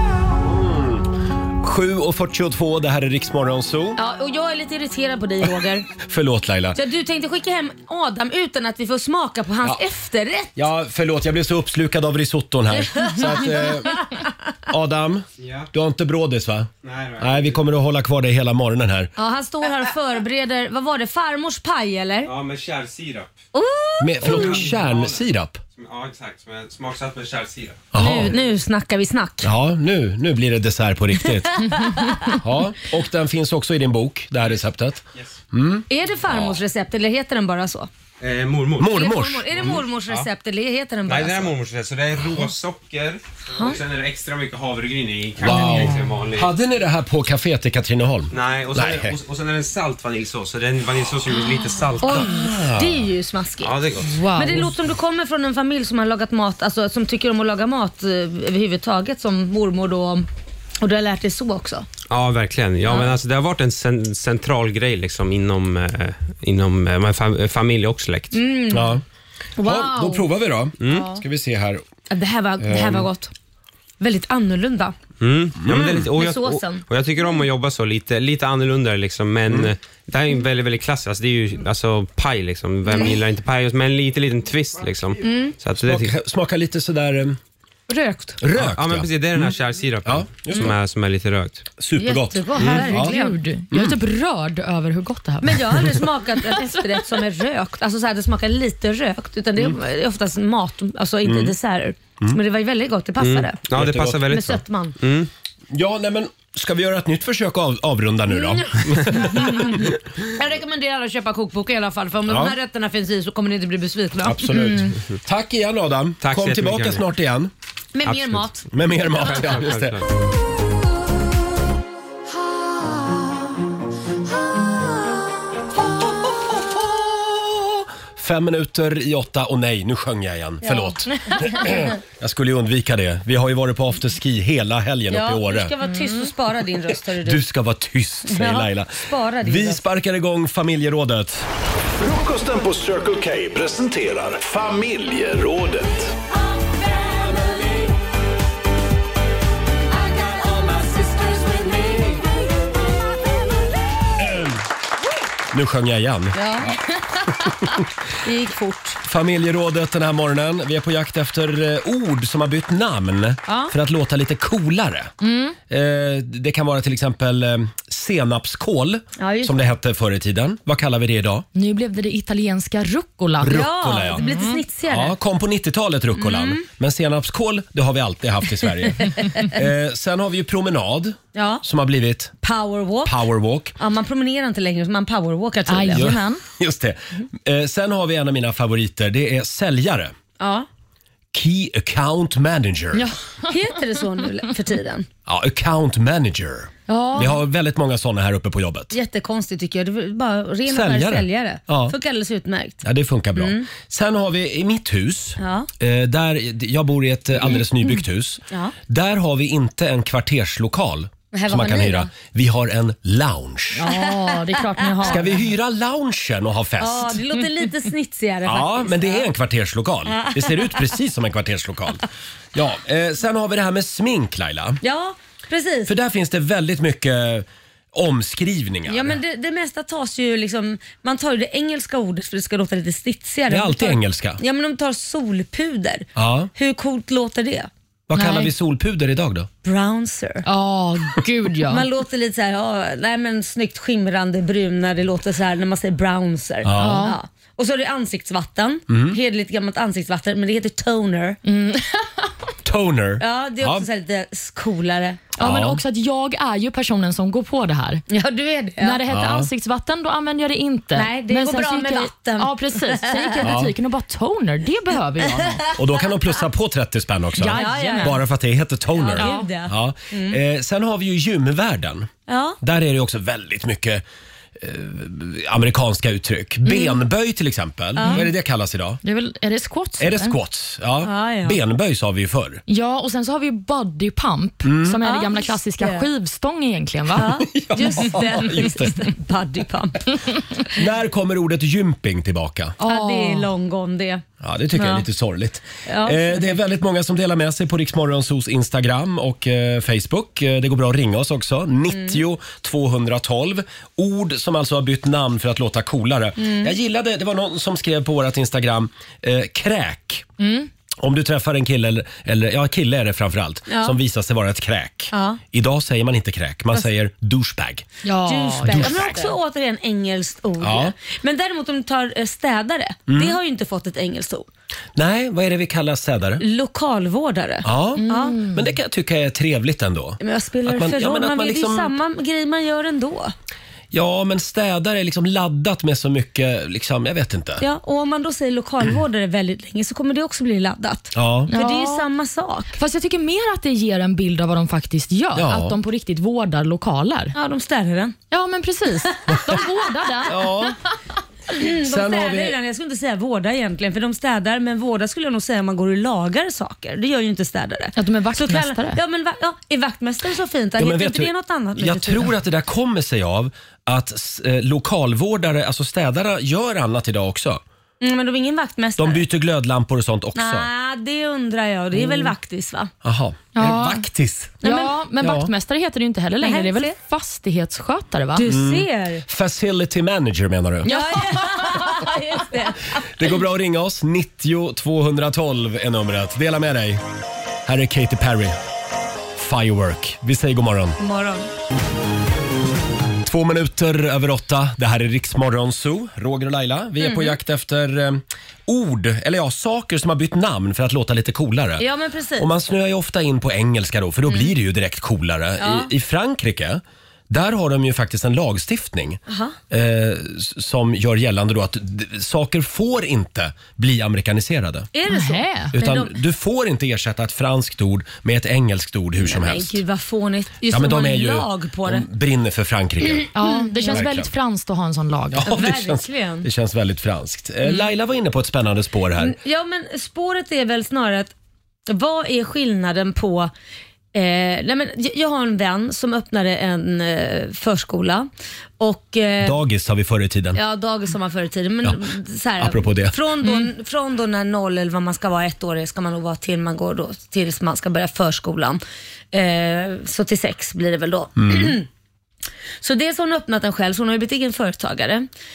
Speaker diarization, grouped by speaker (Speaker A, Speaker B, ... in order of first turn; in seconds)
Speaker A: 0.4-1.1, 1.6-4.0, 6.0-6.8, 10.6-14.0, 14.7-19.1, 24.0-25.6, 27.9-28.4, 29.4-31.6, 32.3-36.6, 38.8-39.8, 45.4-49.2, 52.1-53.1, 68.7-69.0, 69.6-71.8, 72.6-73.1, 75.6-76.1, 85.8-87.4, 88.4-90.8, 91.8-93.1, 101.2-101.5, 103.8-104.2, 105.7-109.9, 112.3-112.5, 114.2-117.5, 118.7-120.1, 126.8-135.7, 137.2-141.5, 154.2-154.6, 155.5-156.7, 159.0-165.1, 165.7-171.5, 173.4-174.2, 174.9-182.3, 183.0-183.8, 185.9-190.1, 191.3-193.1, 195.3-198.9, 200.7-202.0, 202.8-213.8, 215.1-217.2, 218.4-222.0, 222.5-224.8, 225.9-229.2, 233.5-234.4, 236.2-236.5, 238.1-239.5, 246.6-247.1, 248.9-249.2, 252.7-253.9, 255.4-255.8, 259.1-259.5, 263.4-263.7, 265.8-272.1, 272.6-274.0, 274.6-279.0, 280.0-282.6, 284.6-285.0, 287.3-289.0, 290.8-292.8, 294.4-310.3, 311.0-317.9, 318.7-319.3, 320.6-320.9, 323.1-323.4, 324.9-326.4, 327.6-331.9, 333.9-337.6, 341.1-341.5, 345.4-345.8, 350.3-350.8, 351.7-352.6, 360.8-367.6, 369.0-370.7, 372.0-372.3, 373.0-374.6, 375.2-375.5, 378.5-380.9, 383.1-387.0, 387.7-388.6, 389.4-391.0, 393.2-401.9, 402.4-409.2, 409.7-414.9, 415.7-419.8, 420.7-423.3, 423.9-424.3, 425.3-429.4, 439.4-440.6, 442.6-443.2, 451.4-451.8
Speaker B: 4.0-5.9, 6.8-10.5, 12.8-14.3, 19.2-22.3, 23.5-24.7, 28.0-29.5, 31.6-32.4, 35.9-37.9, 38.9-41.5, 43.5-43.8, 52.0-53.8, 54.4-60.3, 60.8-61.9, 62.9-63.1, 68.3-69.0, 69.6-70.3, 72.1-73.3, 74.0-75.0, 76.2-76.9, 85.2-85.6, 87.9-88.4, 92.0-93.4, 95.4-105.0, 108.3-114.8, 117.9-118.6, 130.6-131.9, 135.1-137.4, 138.3-139.8, 151.0-152.2, 156.3-157.5, 158.2-159.0, 163.5-163.7, 169.2-169.6, 173.5-175.2, 176.2-176.6, 179.1-179.5, 181.3-181.6, 182.4-183.2, 183.8-186.1, 190.4-190.7, 193.5-195.1, 198.9-202.8, 203.4-203.7, 205.4-205.7, 208.5-208.8, 211.3-212.1, 213.8-215.2, 216.8-219.3, 220.1-220.9, 224.8-225.9, 228.9-237.7, 239.6-240.5, 241.7-251.4, 253.2-255.3, 258.1-259.0, 260.9-263.5, 265.5-265.8, 267.5-268.2, 269.0-270.4, 272.3-272.6, 276.6-277.0, 278.0-278.3, 281.0-281.6, 285.0-286.1, 287.1-290.8, 292.9-294.2, 294.7-295.1, 295.9-296.6, 301.9-302.2, 306.4-306.7, 313.7-314.0, 315.1-315.4, 318.3-324.5, 326.4-328.4, 330.2-333.3, 337.6-342.8, 347.4-348.2, 349.0-350.4, 351.5-362.3, 368.0-369.2, 370.4-372.9, 374.6-374.9, 376.4-376.9, 378.4-379.2, 380.9-383.4, 391.0-391.5, 397.0-397.4, 401.8-402.5, 405.6-405.9, 409.3-409.6, 414.9-416.1, 419.2-422.1, 423.4-424.0, 425.5-426.5, 429.2-431.3, 431.9-433.5, 434.1-439.6, 440.6-448.8, 449.3-451.9, 452.8-455.3
Speaker C: 15.4-15.7, 16.8-17.6, 22.2-23.3, 24.2-25.2, 25.8-27.8, 38.2-39.0, 39.6-40.3, 41.1-46.5, 48.3-52.3, 53.6-54.2, 62.1-68.4, 70.8-71.1, 75.2-86.1, 88.5-91.7, 103.2-105.3, 116.2-117.1, 118.1-118.4, 119.2-120.1
Speaker D: 45.5-46.0, 54.0-54.7, 92.6-95.9, 165.2-165.6, 171.6-173.6, 174.2-174.6, 185.7-186.4, 192.9-193.7, 196.9-197.4, 213.7-215.4, 238.2-238.5, 240.5-241.8, 246.8-247.2, 251.4-252.3, 255.4-258.0, 258.8-265.6, 267.4-268.2, 269.2-269.5, 278.0-278.3, 279.0-280.4, 282.7-287.3, 292.8-293.5, 310.4-310.7, 318.0-319.3, 328.0-328.6, 341.5-342.1, 342.8-347.4, 348.3-350.5, 358.0-359.0, 373.6-374.1, 374.6-378.4, 380.9-382.1, 415.1-415.7, 423.4-425.5
Speaker E: 141.9-146.1